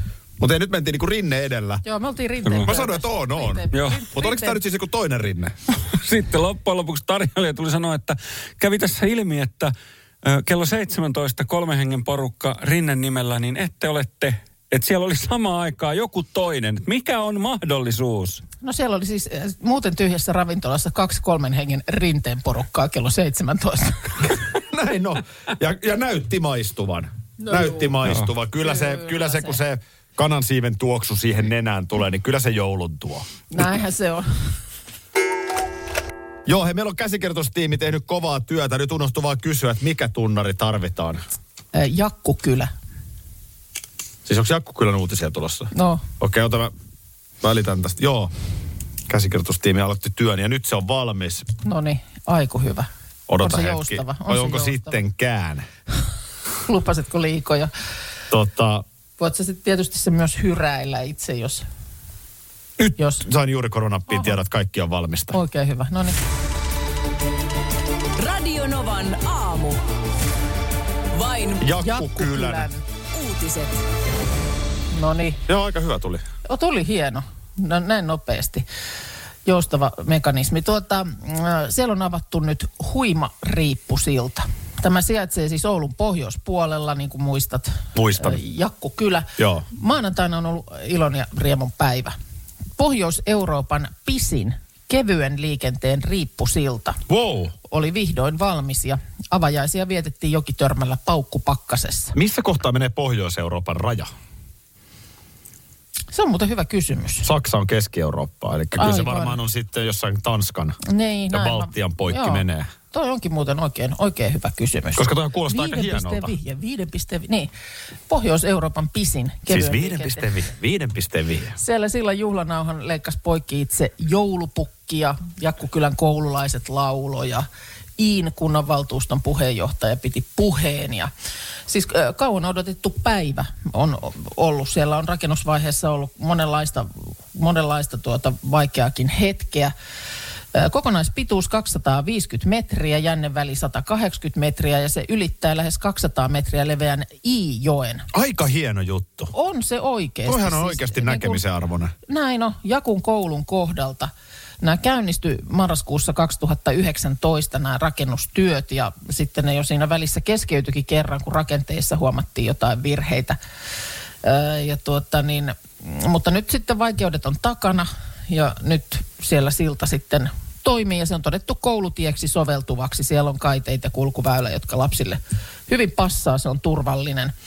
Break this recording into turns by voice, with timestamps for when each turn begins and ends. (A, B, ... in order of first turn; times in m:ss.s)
0:00.4-0:01.8 A
0:01.8-0:04.6 B
0:02.6-0:05.6 A
0:03.7-0:04.0 C
0:05.8-0:18.4 C
0:18.6-0:24.4 B
0:24.5-0:33.6 A
0:27.4-0:28.0 B
0:28.6-0:29.6 B
0:33.5-0:34.3 B
0:36.5-0:41.2 A
0:41.7-0:42.7 B
0:44.3-0:46.7 A
0:45.7-0:46.1 B
0:47.4-0:48.3 A
0:49.1-0:51.5 A
0:51.6-0:52.9 B
0:53.3-0:55.7 A
0:53.4-0:55.0 B
0:56.6-0:57.7 B
0:58.3-0:58.8 A
0:59.2-1:01.6 B
1:02.8-1:05.4 A
1:03.0-1:03.2 B
1:04.1-1:04.4 B
1:05.3-1:06.2 B
1:08.2-1:09.8 D
1:11.1-1:11.7 D
1:11.6-1:12.7 A
1:11.8-1:12.8 B
1:13.1-1:13.8 D
1:14.9-1:15.4 B
1:15.5-1:16.3 A
1:16.5-1:18.6 B
1:19.5-1:32.1 B
1:28.0-1:28.4 A
1:29.4-1:29.6 A
1:32.8-1:37.0 B
1:37.1-1:37.5 A
1:37.6-1:42.1 B
1:42.1-1:44.1 A
1:46.1-1:47.3 B
1:47.2-1:50.8 A
1:48.8-1:49.4 B
1:50.8-1:57.5 B
1:51.3-1:52.7 A
1:55.0-1:56.3 A
1:58.1-2:00.3 B
1:59.5-2:01.6 A
2:01.6-2:07.5 B
2:08.0-2:11.1 B
2:11.7-2:19.7 B
2:20.5-2:28.1 B
2:28.1-2:29.3 A
2:29.3-2:31.4 B
2:30.3-2:31.9 A
2:32.1-2:43.4 B
2:44.2-2:57.3 B